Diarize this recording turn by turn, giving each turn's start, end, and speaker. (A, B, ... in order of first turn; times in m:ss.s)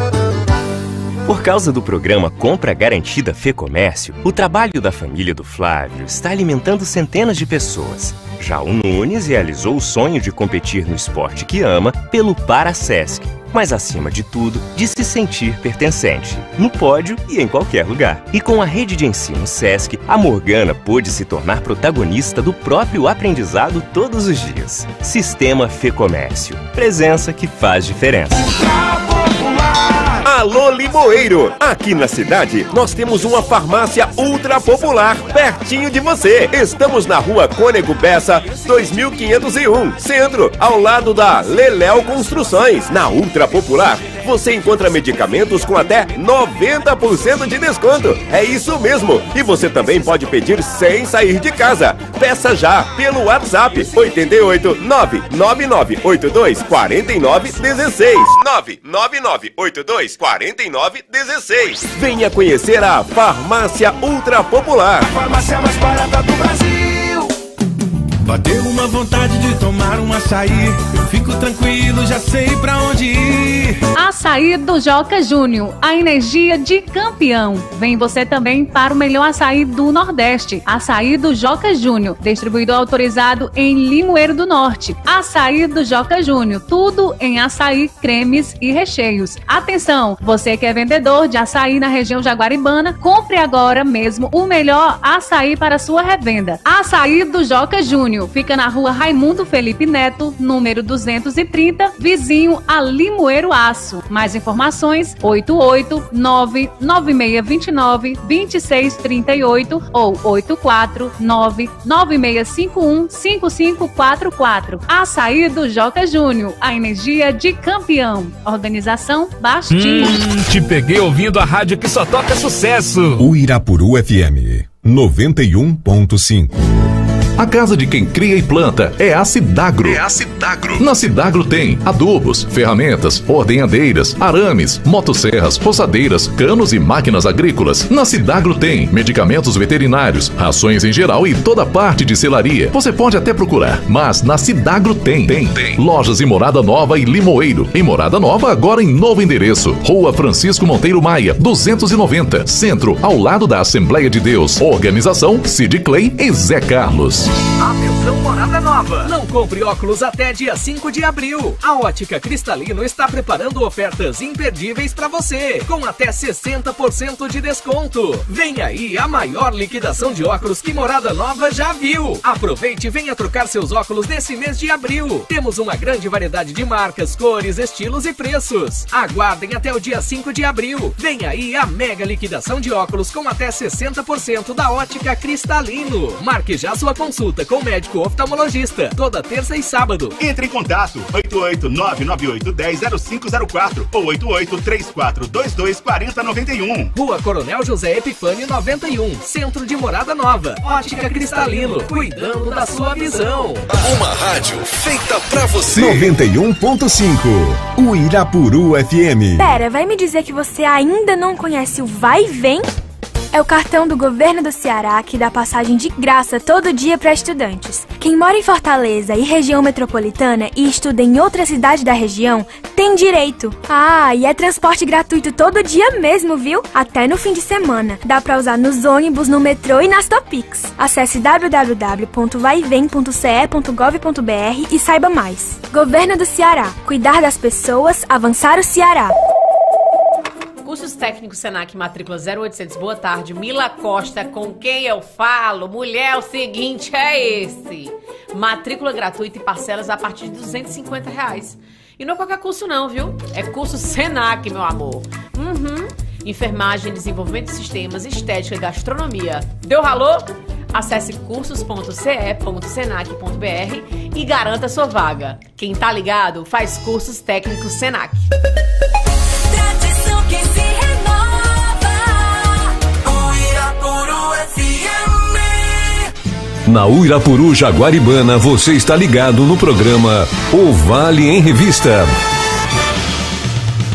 0:01.2-0:28.4 A
0:28.6-0:30.0 B
0:30.2-1:05.0 C
1:05.1-1:07.3 B
1:08.2-1:13.8 B
1:14.0-2:00.2 D
1:59.7-2:03.2 E
2:03.2-2:06.7 F
2:07.4-2:37.3 G
2:37.6-3:10.2 H
3:10.2-3:16.9 I
3:16.9-3:23.6 H
3:25.6-3:29.4 F
3:29.4-3:32.7 J
3:33.3-3:59.1 J
4:00.6-4:28.3 K
4:36.6-4:42.1 L